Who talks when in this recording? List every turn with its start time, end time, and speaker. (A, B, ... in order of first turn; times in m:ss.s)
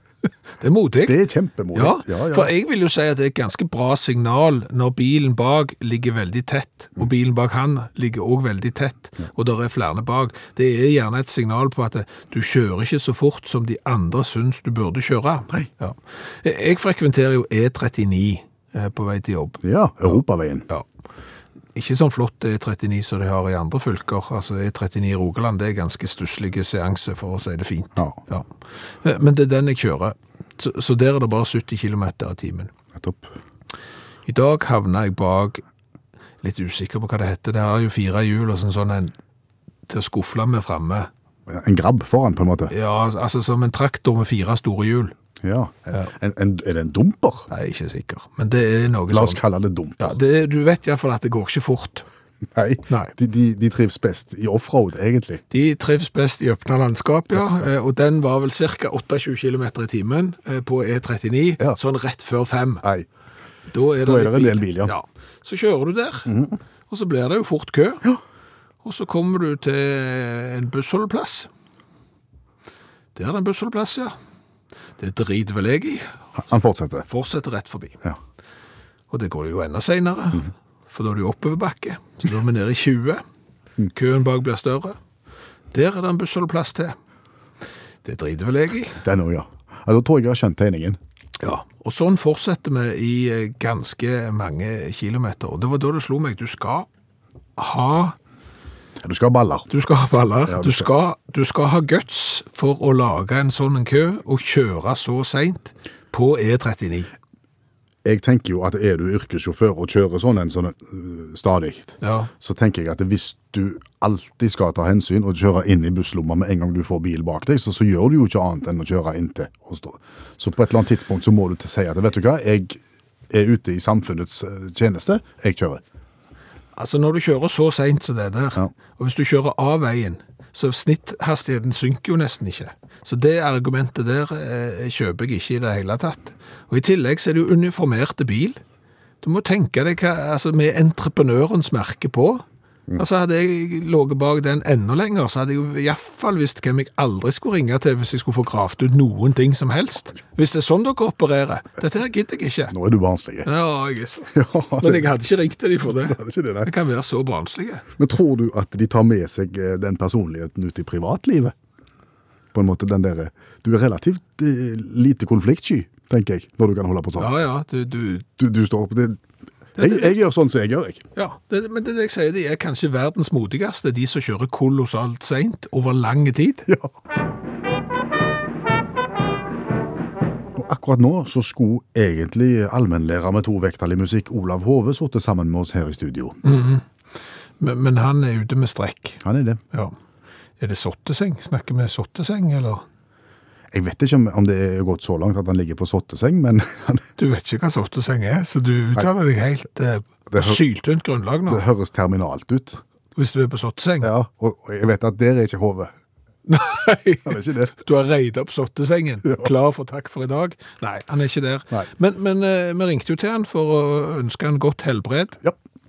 0:00.6-0:01.2 A
0:01.0-0:02.5 B
0:01.7-0:19.6 A
0:19.6-0:20.7 B
0:21.8-0:28.5 A
0:29.0-0:32.7 A
0:32.9-0:33.4 B
0:34.3-0:35.6 A
0:36.4-0:39.1 A
0:39.9-0:41.1 A
0:41.5-0:42.7 B
0:42.7-0:45.1 A
0:45.4-0:47.5 B
0:47.5-0:49.4 A
0:49.1-0:50.1 B
0:50.0-0:52.1 A
0:52.6-0:55.4 B
0:52.9-0:53.1 A
0:55.5-1:02.8 A
1:03.7-1:06.3 A
1:04.0-1:04.9 B
1:06.3-1:06.6 B
1:06.9-1:08.1 A
1:08.8-1:11.5 A
1:13.2-1:14.1 A
1:15.0-1:16.2 A
1:16.4-1:17.1 B
1:17.1-1:18.0 A
1:19.1-1:23.2 A
1:23.9-1:25.0 A
1:25.7-1:27.0 A
1:28.0-1:29.0 A
1:29.0-1:31.0 B
1:31.4-1:36.9 A
1:37.6-1:38.2 A
1:39.0-1:39.7 B
1:39.7-1:47.1 A
1:40.5-1:40.9 B
1:48.0-2:05.8 B
1:52.0-1:52.3 A
2:06.8-2:18.6 A
2:19.2-2:22.4 A
2:23.0-2:32.8 A
2:32.7-2:33.5 B
2:33.4-2:37.9 A
2:34.3-2:35.1 B
2:36.1-2:36.7 B
2:38.0-2:41.6 B
2:42.5-2:47.3 B
2:47.2-2:48.3 A
2:48.4-2:49.2 B
2:49.8-2:51.0 B
2:49.8-2:50.2 A
2:51.2-2:56.7 A
3:00.6-3:06.4 B
3:06.4-3:06.8 A
3:07.6-3:09.2 A
3:09.2-3:09.6 B
3:10.6-3:12.8 A
3:13.7-3:17.1 B
3:17.2-3:21.6 A
3:20.3-3:20.6 B
3:21.5-3:22.8 B
3:23.2-3:24.1 A
3:24.0-3:25.9 B
3:26.5-3:35.4 A
3:27.3-3:27.7 B